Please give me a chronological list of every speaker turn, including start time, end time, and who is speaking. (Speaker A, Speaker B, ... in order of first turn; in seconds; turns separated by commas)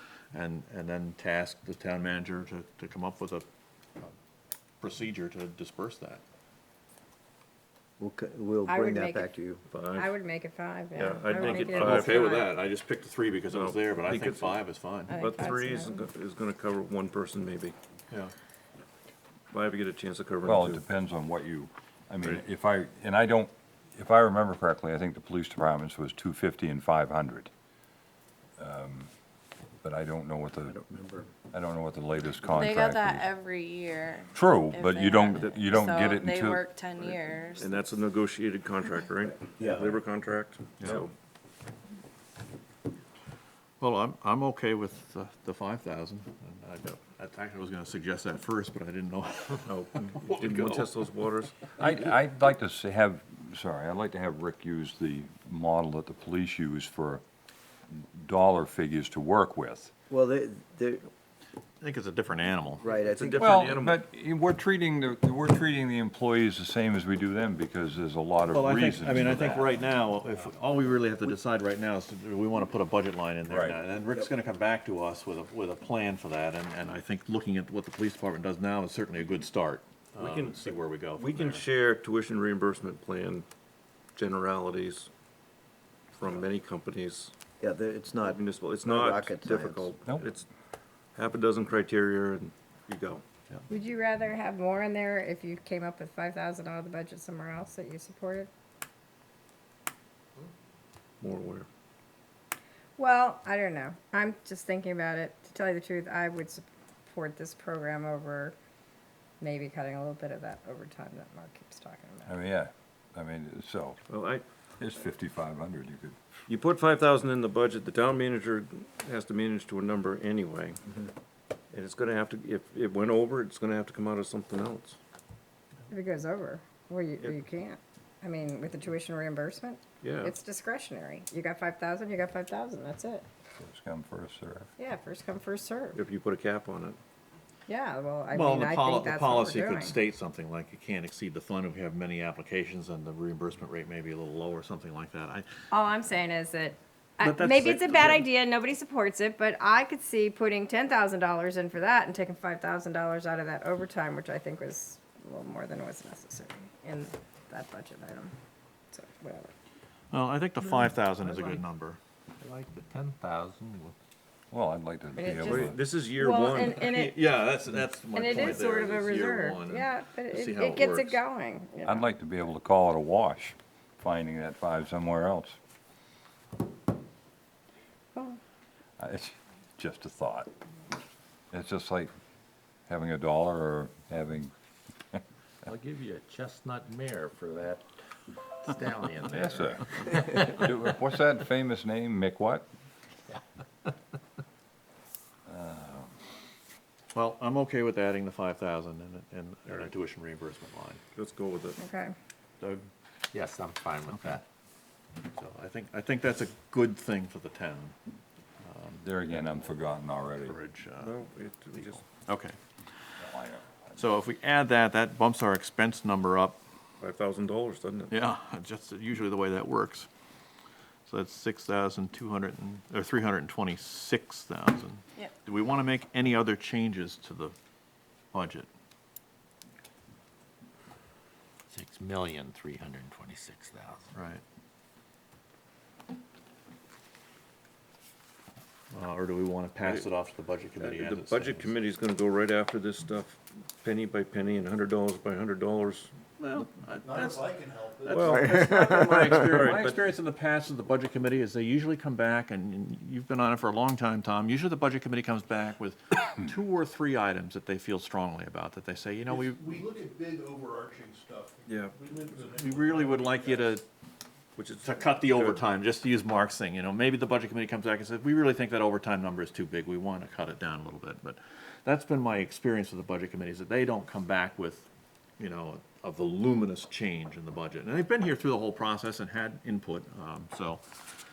Speaker A: 0.3-3.5, Speaker A: 4.8-6.2, Speaker B: 8.0-9.6, Speaker C: 8.7-9.3, Speaker D: 9.7-10.1, Speaker C: 9.9-12.5, Speaker D: 10.9-12.3, Speaker A: 11.4-15.2, Speaker D: 13.5-14.6, Speaker C: 15.1-16.1, Speaker D: 15.1-17.8, Speaker D: 19.5-20.8, Speaker E: 20.4-27.5, Speaker E: 28.6-29.1, Speaker E: 29.8-30.8, Speaker B: 30.7-31.2, Speaker E: 31.5-33.3, Speaker F: 32.5-38.0, Speaker E: 34.3-36.6, Speaker D: 37.0-41.1, Speaker A: 40.8-41.1, Speaker A: 43.8-51.1, Speaker D: 49.6-51.6, Speaker E: 51.8-57.2, Speaker E: 57.9-59.9, Speaker B: 60.1-61.1, Speaker A: 61.8-62.9, Speaker B: 62.8-63.5, Speaker D: 63.0-64.0, Speaker E: 63.4-69.8, Speaker A: 68.5-81.7, Speaker E: 73.5-73.8, Speaker D: 80.2-83.5, Speaker D: 84.2-85.1, Speaker D: 86.1-87.3, Speaker B: 87.6-89.9, Speaker D: 88.2-90.5, Speaker D: 91.2-93.2, Speaker C: 93.7-98.5, Speaker D: 101.2-101.7, Speaker C: 103.0-108.5, Speaker C: 109.4-112.4, Speaker E: 112.3-114.0, Speaker D: 114.1-114.4, Speaker E: 114.8-116.2, Speaker D: 116.5-121.0, Speaker D: 121.7-125.0, Speaker C: 125.9-133.3, Speaker D: 130.0-130.3, Speaker E: 133.6-134.7, Speaker C: 134.8-136.0, Speaker D: 135.9-137.0, Speaker C: 137.7-140.0, Speaker A: 138.3-145.5, Speaker C: 145.7-158.3, Speaker A: 147.2-148.2, Speaker C: 158.9-159.5, Speaker A: 160.1-162.0, Speaker G: 161.3-161.6, Speaker G: 162.4-163.9, Speaker E: 164.5-165.8, Speaker C: 165.2-167.2, Speaker D: 165.4-166.9, Speaker A: 166.8-171.2, Speaker C: 168.1-172.1, Speaker E: 171.8-175.6, Speaker E: 179.0-180.5, Speaker E: 181.5-182.1, Speaker E: 182.9-184.5, Speaker G: 185.7-187.9, Speaker G: 188.5-190.3, Speaker E: 189.3-192.7, Speaker G: 193.3-193.9, Speaker E: 195.5-196.1, Speaker A: 197.1-201.0, Speaker D: 201.1-201.8, Speaker C: 201.8-202.2, Speaker A: 202.6-202.9, Speaker G: 203.3-204.4, Speaker A: 205.3-207.9, Speaker A: 208.6-209.5, Speaker E: 209.0-210.6, Speaker A: 210.2-211.1, Speaker D: 211.0-212.1, Speaker A: 211.7-212.6, Speaker E: 213.2-214.0, Speaker A: 214.0-216.6, Speaker D: 217.0-218.1, Speaker A: 218.1-220.1, Speaker A: 221.1-227.6, Speaker A: 228.3-228.7, Speaker G: 231.7-234.0, Speaker A: 234.1-234.4, Speaker A: 238.9-241.7, Speaker D: 240.8-246.1, Speaker A: 246.4-259.8, Speaker H: 247.0-249.2, Speaker D: 248.1-250.0, Speaker H: 259.3-263.7, Speaker D: 261.7-262.1, Speaker A: 262.5-263.9, Speaker D: 264.6-265.6, Speaker A: 264.8-274.9, Speaker A: 275.4-280.8